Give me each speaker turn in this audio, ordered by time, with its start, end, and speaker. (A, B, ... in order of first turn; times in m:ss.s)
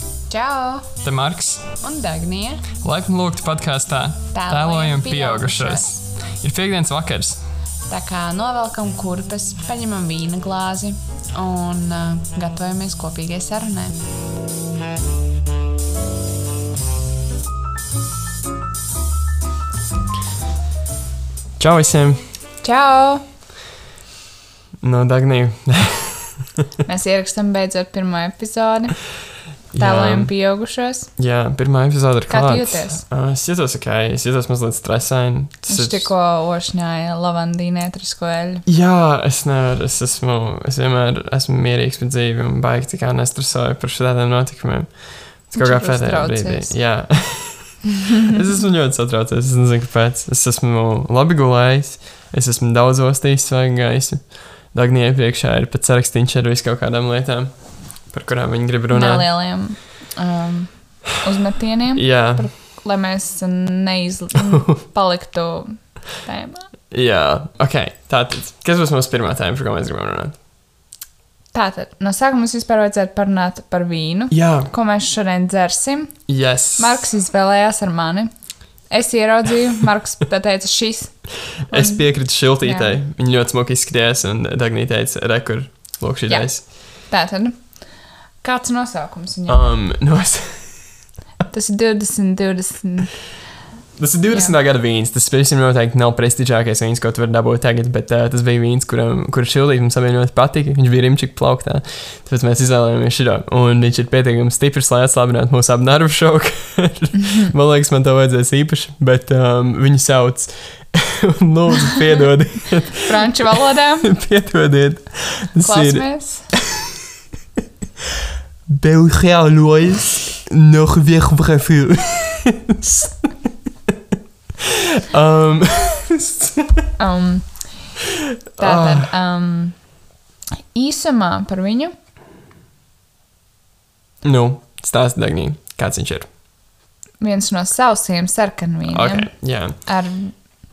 0:00.3-0:00.9 A
0:01.0-0:01.7 B
0:01.8-0:02.7 A
0:02.8-0:07.4 B
0:04.3-0:05.9 A
0:07.9-0:14.0 A
0:21.6-0:22.3 B
0:22.6-0:23.2 A
0:24.8-0:26.7 B
0:26.8-0:29.0 A
0:29.7-0:30.3 B
0:29.8-0:31.1 A
0:31.2-0:36.1 B
0:32.3-0:33.0 A
0:35.7-0:38.6 A
0:38.6-0:57.5 B
0:45.5-0:46.7 A
0:48.0-0:48.3 A
0:58.1-0:59.3 B
0:58.9-1:06.7 A
1:01.9-1:02.5 B
1:04.4-1:04.8 B
1:06.9-1:10.4 B
1:11.5-1:16.2 A
1:14.3-1:14.7 B
1:16.3-1:17.1 B
1:16.8-1:18.3 A
1:18.9-1:21.2 A
1:21.7-1:22.1 A
1:21.7-1:26.6 B
1:22.6-1:23.0 A
1:26.3-1:27.7 A
1:28.4-1:29.7 A
1:29.5-1:30.8 B
1:31.5-1:33.1 A
1:34.0-1:57.0 B
1:47.2-1:47.5 A
1:53.0-1:54.1 A
1:55.6-1:56.5 A
1:58.7-2:03.3 B
2:04.6-2:06.9 B
2:07.0-2:07.6 A
2:08.0-2:09.1 B
2:08.6-2:09.8 A
2:10.7-2:11.9 A
2:14.2-2:16.3 B
2:17.2-2:19.3 A
2:18.9-2:19.8 B
2:19.8-2:20.3 A